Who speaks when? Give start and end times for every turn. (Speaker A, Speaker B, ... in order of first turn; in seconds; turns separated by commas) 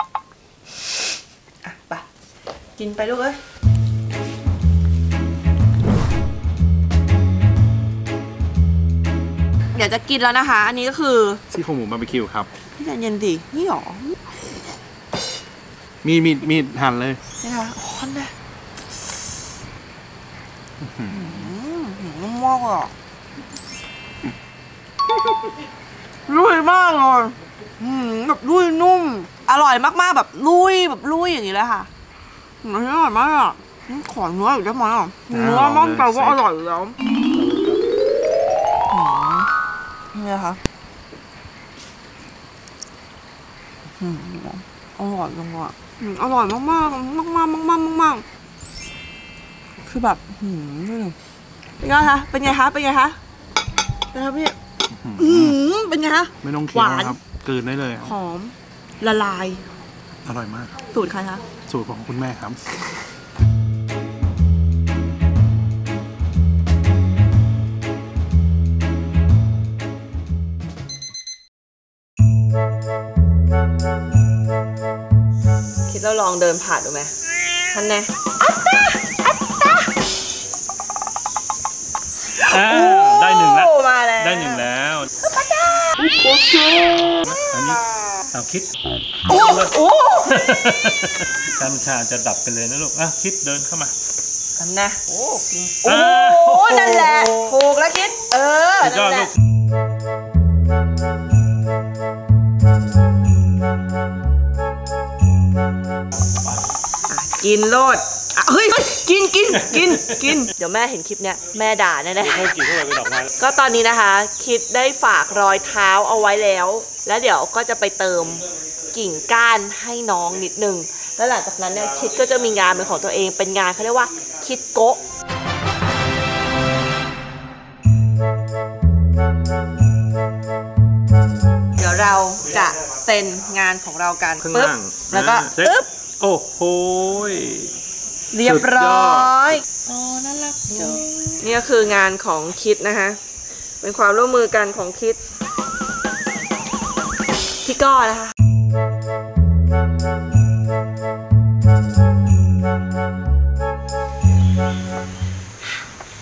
Speaker A: 1.6-2.0, Speaker A: 2.8-3.4, Speaker A: 9.7-11.4, Speaker B: 11.5-12.5, Speaker A: 12.8-14.2, Speaker B: 16.0-17.2, Speaker A: 17.4-18.3, Speaker A: 21.1-22.9, Speaker A: 26.3-31.9, Speaker A: 32.6-37.0, Speaker B: 35.3-36.0, Speaker C: 35.6-36.4, Speaker B: 37.3-37.8, Speaker A: 38.9-39.5, Speaker A: 40.1-40.6, Speaker A: 44.0-48.2, Speaker A: 49.8-51.2, Speaker A: 51.8-53.2, Speaker A: 54.1-54.5, Speaker C: 55.0-55.6, Speaker A: 55.2-57.2, Speaker B: 56.4-57.4, Speaker C: 56.5-58.1, Speaker A: 58.0-59.7, Speaker C: 60.3-60.7, Speaker B: 60.3-60.6, Speaker A: 60.9-61.4, Speaker C: 61.7-62.6, Speaker A: 75.9-77.1, Speaker A: 77.7-79.9, Speaker B: 82.5-85.1, Speaker A: 82.5-84.7, Speaker A: 85.2-87.0, Speaker B: 87.2-88.7, Speaker A: 89.3-90.3, Speaker B: 89.3-93.9, Speaker A: 94.6-99.3, Speaker B: 95.8-97.5, Speaker B: 98.8-99.3, Speaker A: 107.1-112.5, Speaker B: 112.2-113.3, Speaker A: 113.4-125.0, Speaker A: 131.8-135.9, Speaker B: 134.4-137.7, Speaker A: 138.3-143.2, Speaker B: 138.4-139.6, Speaker A: 143.8-145.2, Speaker A: 147.6-148.3